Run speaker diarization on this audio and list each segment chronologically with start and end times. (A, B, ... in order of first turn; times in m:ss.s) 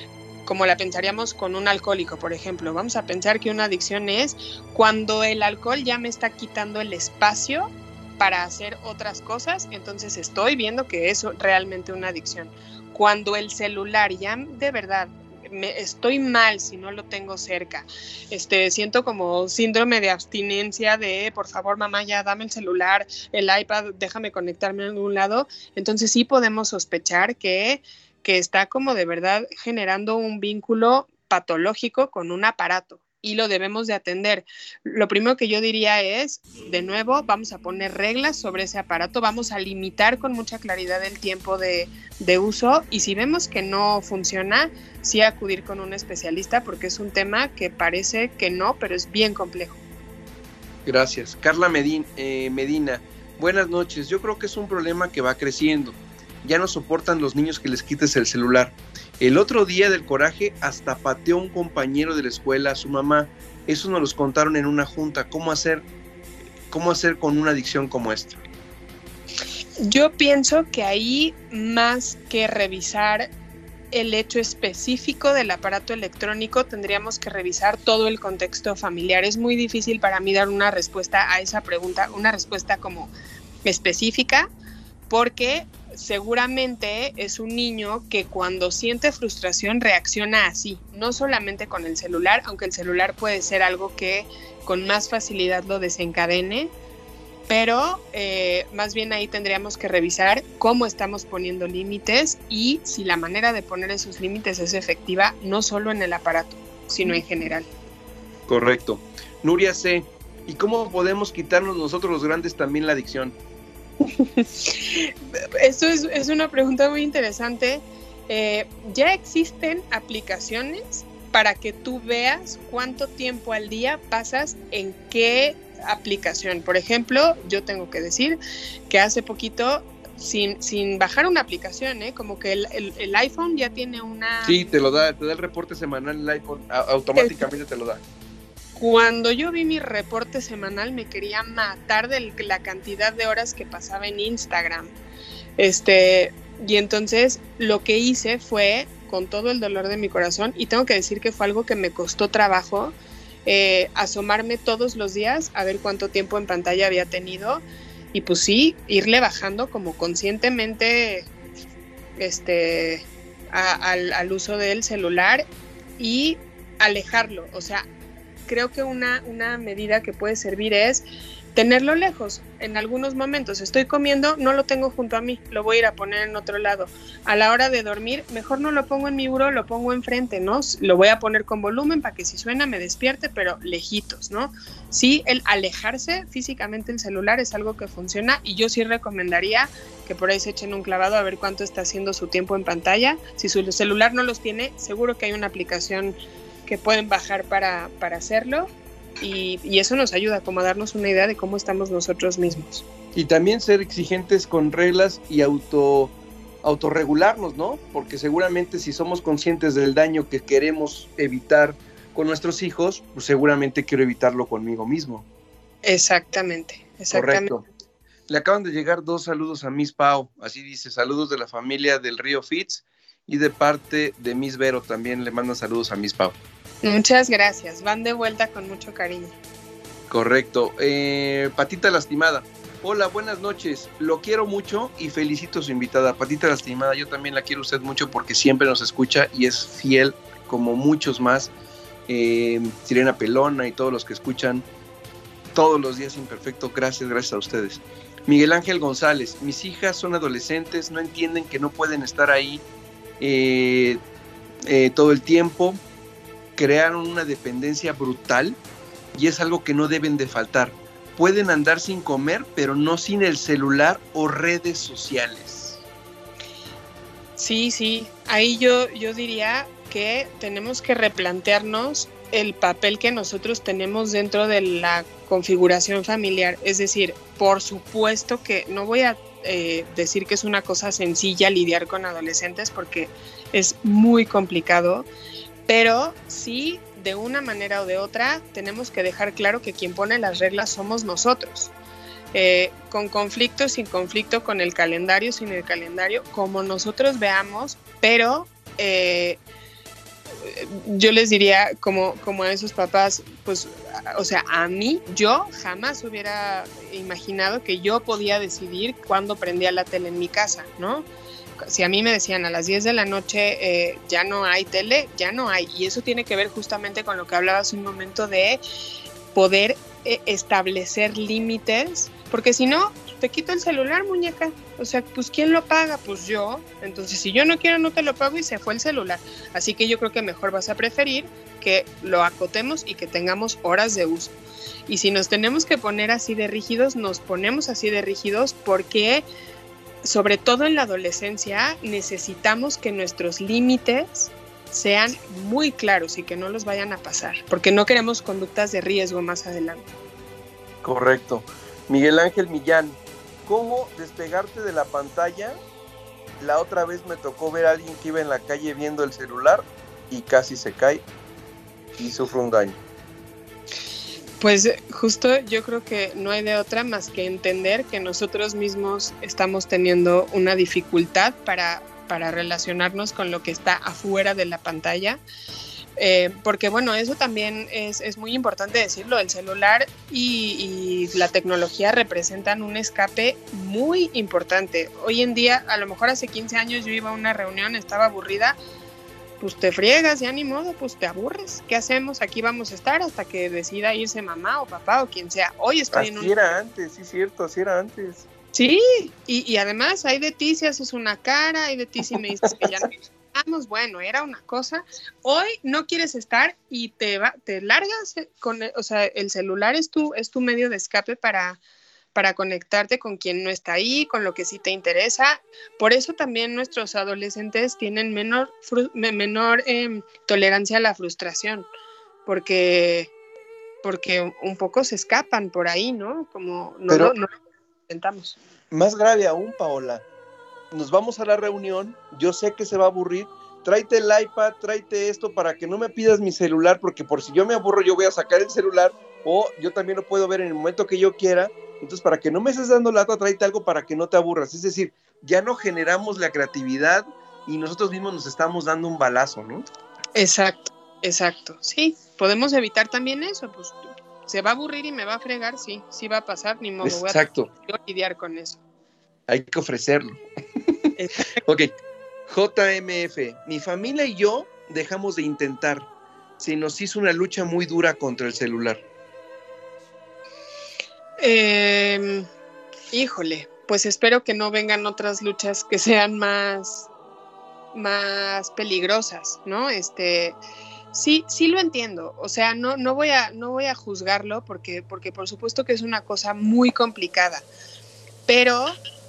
0:00.4-0:49.8 A
0:50.9-1:05.8 B
1:06.7-1:08.4 B
1:09.8-1:13.3 A
1:13.9-1:23.1 A
1:23.6-1:24.5 A
1:25.1-1:36.7 A
1:37.5-1:47.7 A
1:48.5-1:53.4 B
1:54.2-2:14.7 A
2:14.5-2:18.0 B
2:18.8-2:24.9 A
2:25.6-2:41.3 A
2:42.2-2:45.4 A
2:46.0-2:47.8 A
2:48.5-2:51.0 A
2:51.6-3:18.7 A
3:19.2-3:22.8 A
3:23.1-3:35.3 B
3:35.8-3:37.5 A
3:37.1-3:37.6 B
3:38.3-3:46.4 B
3:46.8-3:49.4 A
3:50.1-4:01.5 B
4:02.1-4:04.7 B
4:05.5-4:12.6 B
4:13.2-4:14.0 B
4:14.7-4:15.8 B
4:16.6-4:18.6 B
4:19.1-4:25.8 B
4:27.4-4:45.1 A
4:45.7-4:51.7 A
4:52.3-4:59.4 A
5:00.4-5:11.1 A
5:11.6-5:18.6 A
5:19.3-5:34.4 A
5:34.9-5:39.2 A
5:40.0-5:49.9 A
5:50.8-5:55.6 B
5:56.4-6:01.0 B
6:02.0-6:02.8 B
6:04.4-6:15.2 A
6:16.0-6:28.6 A
6:29.4-6:36.3 A
6:35.9-6:38.2 B
6:38.5-6:51.6 A
6:52.2-7:01.7 A
7:02.3-7:03.1 A
7:03.8-7:07.3 A
7:07.9-7:08.4 A
7:08.7-7:10.0 B
7:10.7-7:29.7 B
7:30.2-7:38.6 A
7:36.8-7:37.5 B
7:39.3-7:40.2 B
7:41.0-7:41.4 A
7:41.4-7:41.7 B
7:42.3-7:45.9 B
7:46.4-7:48.8 B
7:51.2-7:52.3 A
7:52.9-7:56.9 A
7:57.7-8:00.4 A
8:00.9-8:07.5 A
8:08.3-8:08.8 A